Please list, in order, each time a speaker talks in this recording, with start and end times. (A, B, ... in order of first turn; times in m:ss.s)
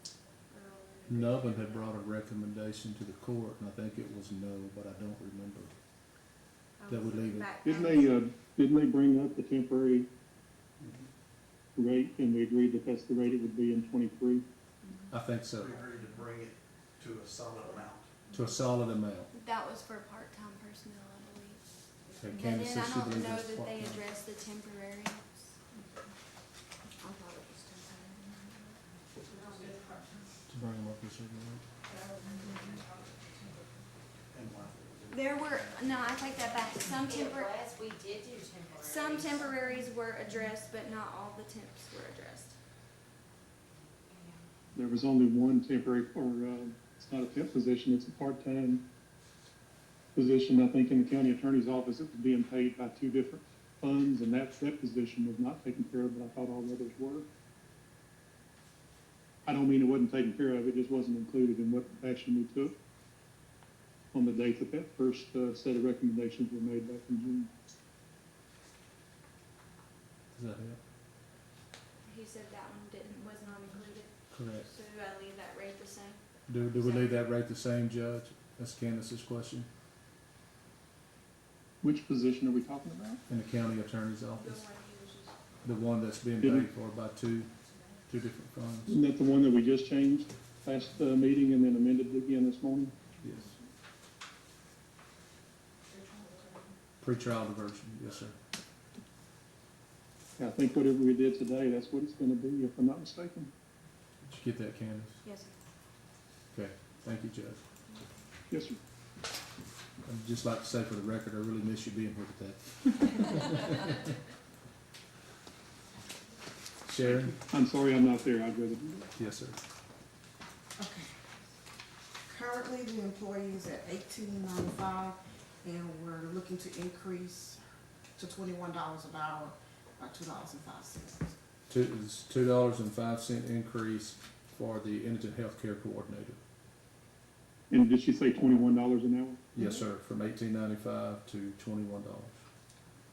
0:00.5-0:01.9 A
0:01.1-0:05.7 B
0:06.8-0:08.1 A
0:06.9-0:07.5 B
0:07.6-0:10.1 C
0:10.8-0:11.1 D
0:11.8-0:14.4 C
0:14.8-0:15.1 A
0:15.1-0:15.8 B
0:15.6-0:18.2 D
0:18.3-0:19.3 B
0:19.3-0:21.6 A
0:22.1-0:24.0 B
0:22.3-0:25.5 A
0:27.0-0:28.2 E
0:30.5-0:31.6 B
0:34.3-0:36.3 D
0:35.1-0:37.6 A
0:37.0-0:39.5 F
0:38.8-0:42.6 A
0:44.7-0:48.8 C
0:50.2-0:57.3 C
0:59.4-1:02.8 C
1:04.1-1:07.5 C
1:10.3-1:10.8 B
1:12.0-1:16.2 A
1:14.3-1:14.7 B
1:16.5-1:19.7 B
1:16.8-1:17.2 A
1:21.8-1:23.2 C
1:23.3-1:24.6 B
1:24.4-1:25.4 A
1:25.6-1:27.5 B
1:26.4-1:26.7 C
1:28.1-1:29.0 B
1:28.9-1:33.0 C
1:33.2-1:33.5 B
1:37.0-1:38.4 B
1:40.4-1:43.5 C
1:44.2-1:45.2 B
1:45.2-1:45.5 A
1:46.5-1:47.6 B
1:48.5-1:48.8 C
1:50.0-1:54.0 B
1:56.8-1:57.4 B
1:57.5-1:59.1 C
1:59.2-1:59.6 B
2:00.8-2:01.1 E
2:02.3-2:07.6 E
2:08.2-2:11.3 E
2:11.7-2:16.4 B
2:17.7-2:19.4 C
2:19.5-2:22.4 B